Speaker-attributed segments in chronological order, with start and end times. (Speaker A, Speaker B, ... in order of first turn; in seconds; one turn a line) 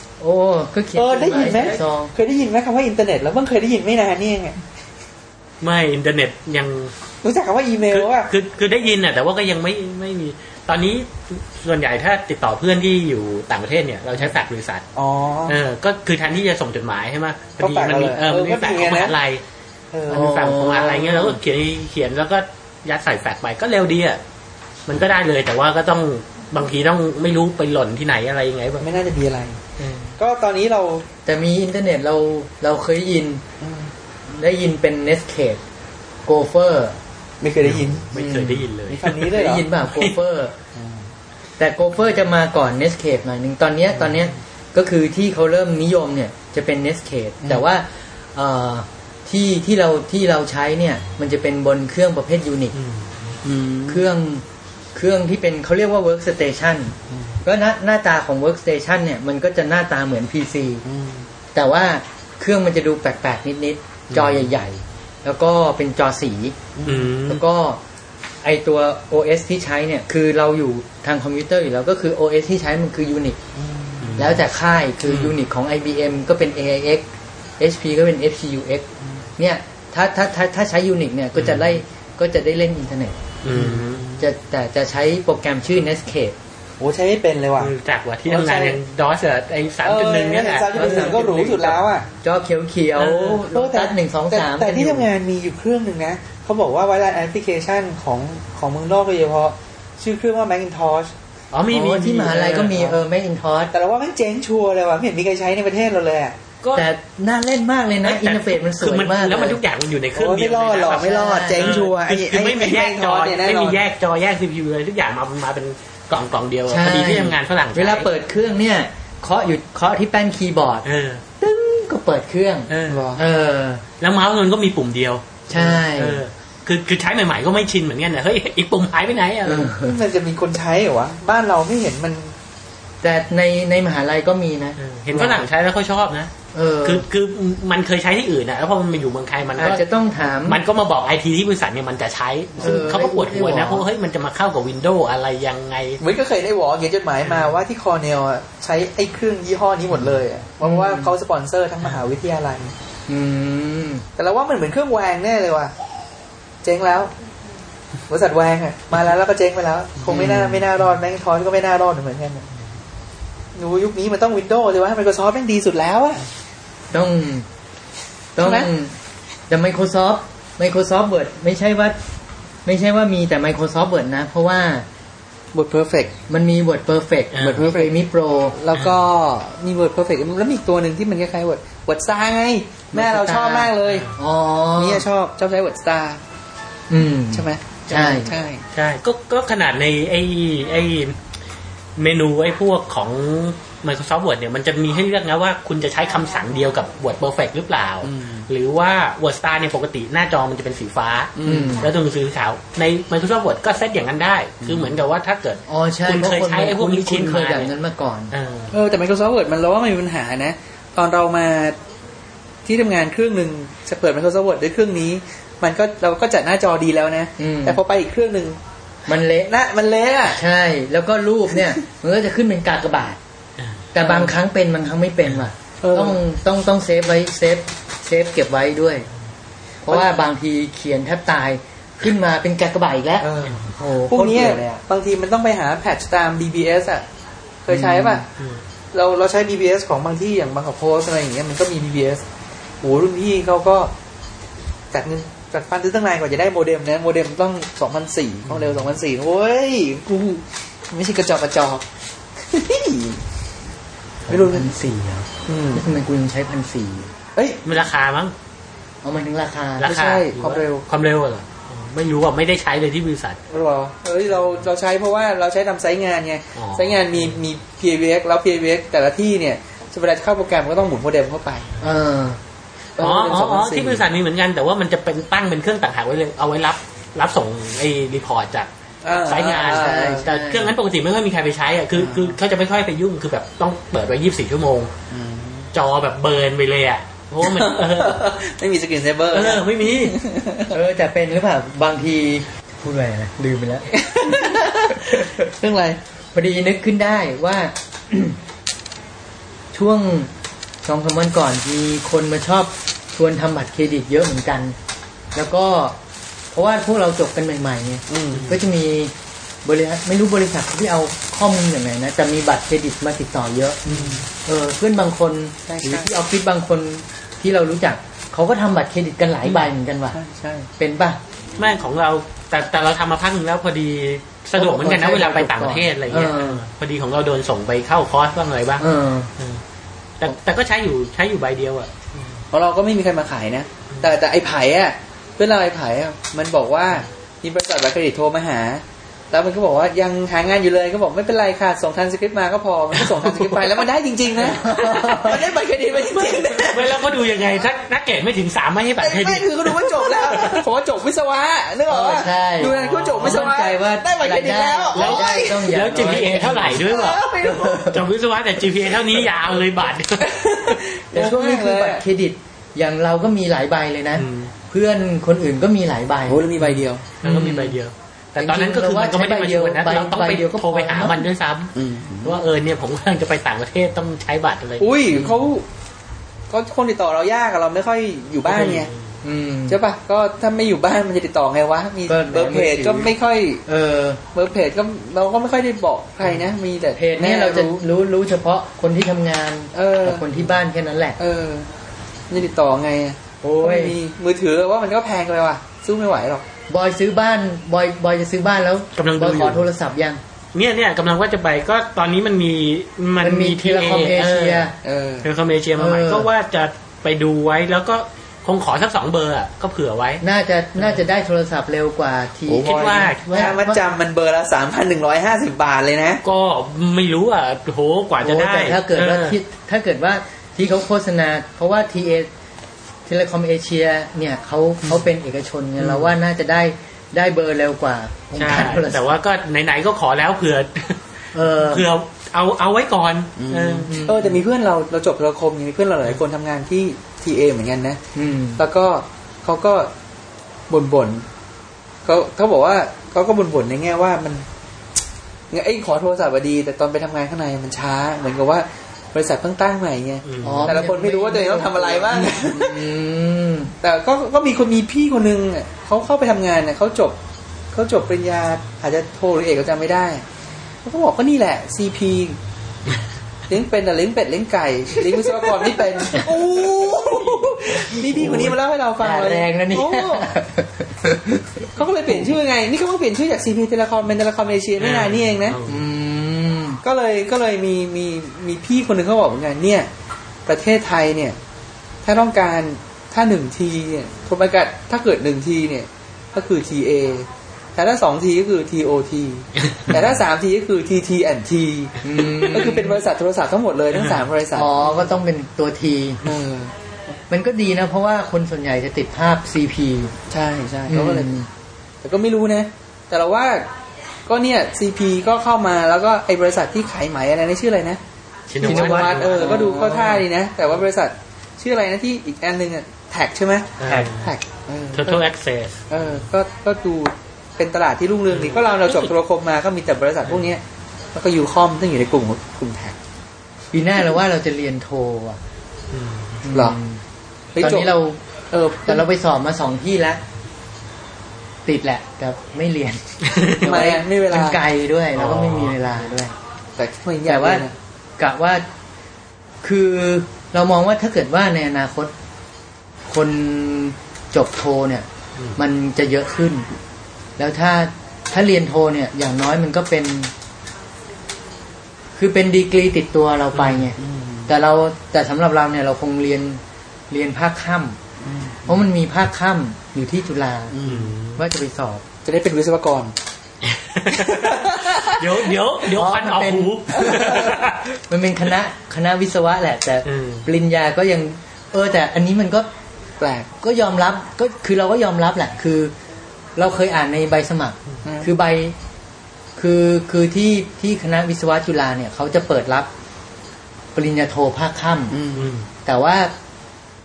Speaker A: 0.2-2.1
Speaker B: 0.9-4.6
Speaker C: 5.6-6.9
Speaker B: 7.2-8.3
Speaker C: 7.9-14.8
Speaker B: 14.9-15.6
Speaker C: 15.5-19.4
Speaker B: 17.6-19.2
Speaker B: 19.9-20.4
Speaker C: 20.1-24.2
Speaker A: 20.1-21.4
Speaker C: 24.9-28.9
Speaker B: 28.8-29.6
Speaker C: 29.8-30.1
Speaker B: 30.2-31.1
Speaker A: 31.3-33.4
Speaker B: 33.6-33.9
Speaker A: 34.3-35.6
Speaker A: 36.3-37.0
Speaker B: 37.4-38.1
Speaker C: 37.6-39.3
Speaker A: 38.1-38.7
Speaker B: 38.9-39.7
Speaker A: 39.2-40.5
Speaker C: 39.9-40.1
Speaker B: 40.8-41.1
Speaker A: 41.6-52.8
Speaker C: 52.8-53.1
Speaker B: 53.4-54.1
Speaker A: 53.9-60.8
Speaker B: 57.1-57.4
Speaker B: 60.9-61.3
Speaker A: 61.5-66.6
Speaker C: 64.1-64.5
Speaker B: 66.8-67.1
Speaker C: 66.9-67.4
Speaker A: 67.3-67.8
Speaker A: 68.4-73.4
Speaker B: 73.6-74.2
Speaker C: 74.0-74.4
Speaker A: 74.2-77.1
Speaker C: 75.1-75.3
Speaker A: 77.6-78.9
Speaker A: 79.4-83.2
Speaker C: 81.4-81.8
Speaker C: 83.4-84.1
Speaker B: 83.5-84.2
Speaker A: 84.2-86.4
Speaker B: 86.8-87.7
Speaker C: 87.6-91.2
Speaker B: 88.3-88.8
Speaker B: 89.8-92.1
Speaker A: 90.7-95.1
Speaker C: 93.0-93.5
Speaker B: 93.5-101.1
Speaker C: 101.5-102.9
Speaker A: 101.7-103.7
Speaker B: 103.7-106.4
Speaker A: 106.8-109.6
Speaker C: 108.0-118.1
Speaker B: 110.2-113.8
Speaker A: 110.9-111.8
Speaker A: 116.7-120.9
Speaker C: 120.8-121.2
Speaker A: 121.4-123.8
Speaker C: 122.7-123.0
Speaker B: 122.9-123.2
Speaker C: 124.0-129.7
Speaker A: 125.5-126.2
Speaker A: 129.4-130.0
Speaker B: 129.8-132.3
Speaker A: 133.0-135.5
Speaker C: 134.8-136.3
Speaker A: 136.5-137.1
Speaker C: 136.8-139.9
Speaker A: 139.6-140.6
Speaker C: 140.4-146.0
Speaker A: 142.6-143.9
Speaker B: 146.0-152.7
Speaker A: 150.6-151.1
Speaker A: 153.1-154.0
Speaker B: 154.2-155.7
Speaker B: 156.6-157.1
Speaker B: 158.1-162.4
Speaker A: 160.1-160.7
Speaker B: 163.6-166.2
Speaker A: 166.9-167.5
Speaker A: 168.4-168.9
Speaker B: 168.4-168.7
Speaker A: 169.5-172.0
Speaker A: 172.7-174.9
Speaker B: 175.5-176.2
Speaker A: 176.3-178.6
Speaker C: 177.3-177.7
Speaker B: 177.5-177.9
Speaker B: 178.5-184.1
Speaker A: 182.9-185.1
Speaker C: 183.9-184.1
Speaker B: 184.8-186.2
Speaker A: 186.9-188.3
Speaker B: 187.3-188.6
Speaker C: 188.7-191.2
Speaker C: 192.0-207.7
Speaker B: 198.0-198.5
Speaker B: 201.4-201.8
Speaker A: 201.5-201.9
Speaker B: 204.6-205.0
Speaker A: 205.7-208.3
Speaker C: 208.3-208.7
Speaker B: 208.7-211.8
Speaker B: 212.7-218.6
Speaker A: 217.4-217.8
Speaker A: 219.1-219.5
Speaker B: 219.5-220.4
Speaker A: 220.3-223.2
Speaker A: 223.9-229.1
Speaker B: 224.0-224.3
Speaker B: 225.8-226.2
Speaker A: 229.8-234.8
Speaker B: 233.2-237.0
Speaker B: 237.7-238.3
Speaker A: 237.7-238.2
Speaker B: 238.9-242.2
Speaker B: 242.8-243.9
Speaker B: 244.9-251.8
Speaker B: 252.4-253.2
Speaker B: 254.3-254.7
Speaker A: 254.3-257.1
Speaker B: 255.5-255.9
Speaker B: 257.4-257.6
Speaker C: 257.6-258.4
Speaker A: 259.0-260.0
Speaker C: 259.8-263.4
Speaker B: 259.8-260.9
Speaker B: 263.5-271.7
Speaker C: 266.6-267.3
Speaker A: 271.8-272.4
Speaker B: 273.0-274.0
Speaker C: 273.0-284.9
Speaker B: 279.0-280.3
Speaker A: 279.6-280.8
Speaker B: 281.9-282.4
Speaker B: 285.1-285.7
Speaker C: 285.7-288.4
Speaker B: 287.4-290.8
Speaker C: 289.3-290.2
Speaker A: 290.7-295.4
Speaker B: 293.9-296.0
Speaker A: 296.3-298.4
Speaker A: 299.7-300.3
Speaker A: 300.8-304.8
Speaker A: 305.4-306.0
Speaker A: 306.5-309.1
Speaker B: 308.1-308.5
Speaker A: 309.6-313.8
Speaker C: 313.9-314.1
Speaker B: 313.9-314.3
Speaker A: 314.4-320.2
Speaker B: 315.7-316.1
Speaker B: 320.1-320.7
Speaker A: 320.8-321.2
Speaker C: 321.6-328.9
Speaker A: 324.6-326.6
Speaker A: 328.8-329.3
Speaker C: 330.2-332.2
Speaker B: 332.5-347.1
Speaker C: 343.0-343.7
Speaker A: 344.4-345.5
Speaker C: 346.2-350.6
Speaker B: 349.0-355.9
Speaker A: 351.9-358.1
Speaker C: 352.6-353.6
Speaker C: 354.9-357.3
Speaker B: 356.7-357.9
Speaker C: 357.8-360.3
Speaker B: 360.2-362.0
Speaker A: 361.1-366.5
Speaker C: 364.2-364.5
Speaker B: 366.3-367.1
Speaker C: 366.6-375.2
Speaker A: 367.2-367.8
Speaker A: 368.4-371.2
Speaker B: 371.8-372.4
Speaker B: 374.8-375.6
Speaker B: 376.5-378.9
Speaker C: 378.5-379.1
Speaker A: 379.2-379.8
Speaker B: 379.7-383.6
Speaker A: 382.1-383.1
Speaker A: 383.7-384.2
Speaker B: 384.3-387.8
Speaker A: 386.9-391.2
Speaker B: 389.7-390.3
Speaker B: 391.2-391.7
Speaker B: 392.3-396.4
Speaker A: 393.4-394.0
Speaker A: 396.7-400.2
Speaker C: 399.0-399.6
Speaker C: 400.5-410.2
Speaker A: 403.2-404.8
Speaker B: 404.8-405.3
Speaker A: 405.8-406.3
Speaker A: 410.2-413.8
Speaker B: 412.5-416.2
Speaker C: 412.6-413.6
Speaker C: 416.2-419.4
Speaker A: 418.2-422.3
Speaker A: 423.1-429.1
Speaker C: 425.8-426.1
Speaker C: 428.4-431.0
Speaker A: 431.3-431.9
Speaker C: 431.6-434.0
Speaker B: 433.4-438.0
Speaker A: 433.9-434.4
Speaker A: 438.1-438.6
Speaker B: 438.6-439.9
Speaker B: 440.7-441.3
Speaker B: 442.1-444.5
Speaker B: 445.5-452.9
Speaker C: 450.2-450.8
Speaker A: 450.4-453.7
Speaker B: 453.8-457.2
Speaker B: 457.7-460.2
Speaker B: 460.8-462.4
Speaker B: 463.5-470.3
Speaker A: 467.9-472.1
Speaker B: 471.8-475.6
Speaker C: 474.8-475.8
Speaker A: 475.6-476.8
Speaker B: 476.8-479.9
Speaker B: 480.5-481.4
Speaker B: 482.0-495.1
Speaker A: 492.0-493.0
Speaker C: 493.9-494.3
Speaker A: 494.5-496.2
Speaker B: 496.2-496.7
Speaker A: 497.3-500.1
Speaker B: 500.3-501.3
Speaker A: 500.9-501.5
Speaker B: 502.0-503.7
Speaker B: 504.3-508.0
Speaker C: 508.5-509.9
Speaker B: 508.6-515.2
Speaker A: 508.6-510.2
Speaker C: 513.8-514.3
Speaker A: 513.9-514.1
Speaker C: 514.9-516.0
Speaker B: 515.9-520.6
Speaker C: 518.3-519.1
Speaker B: 521.1-523.0
Speaker A: 523.7-525.4
Speaker C: 525.9-526.4
Speaker A: 526.4-527.0
Speaker B: 526.5-526.8
Speaker B: 527.5-527.9
Speaker A: 527.6-528.2
Speaker B: 528.5-529.1
Speaker A: 528.9-530.2
Speaker A: 531.6-536.3
Speaker C: 533.3-533.9
Speaker B: 533.6-534.6
Speaker C: 535.2-535.8
Speaker B: 536.8-537.7
Speaker A: 537.3-537.7
Speaker A: 538.2-538.6
Speaker A: 539.6-542.1
Speaker A: 543.1-546.7
Speaker A: 547.4-550.3
Speaker A: 552.2-558.0
Speaker C: 553.5-553.9
Speaker B: 554.0-554.5
Speaker B: 558.2-558.9
Speaker A: 558.7-560.8
Speaker B: 560.7-561.1
Speaker C: 560.9-561.4
Speaker A: 561.4-562.0
Speaker B: 562.2-563.1
Speaker C: 563.6-567.8
Speaker B: 564.1-565.5
Speaker A: 565.9-572.7
Speaker B: 567.0-567.3
Speaker C: 570.1-570.5
Speaker B: 573.2-573.5
Speaker A: 573.6-575.9
Speaker A: 576.6-578.8
Speaker B: 578.0-578.3
Speaker A: 579.6-582.9
Speaker A: 584.0-585.2
Speaker B: 585.1-585.5
Speaker C: 585.4-585.7
Speaker A: 585.9-586.3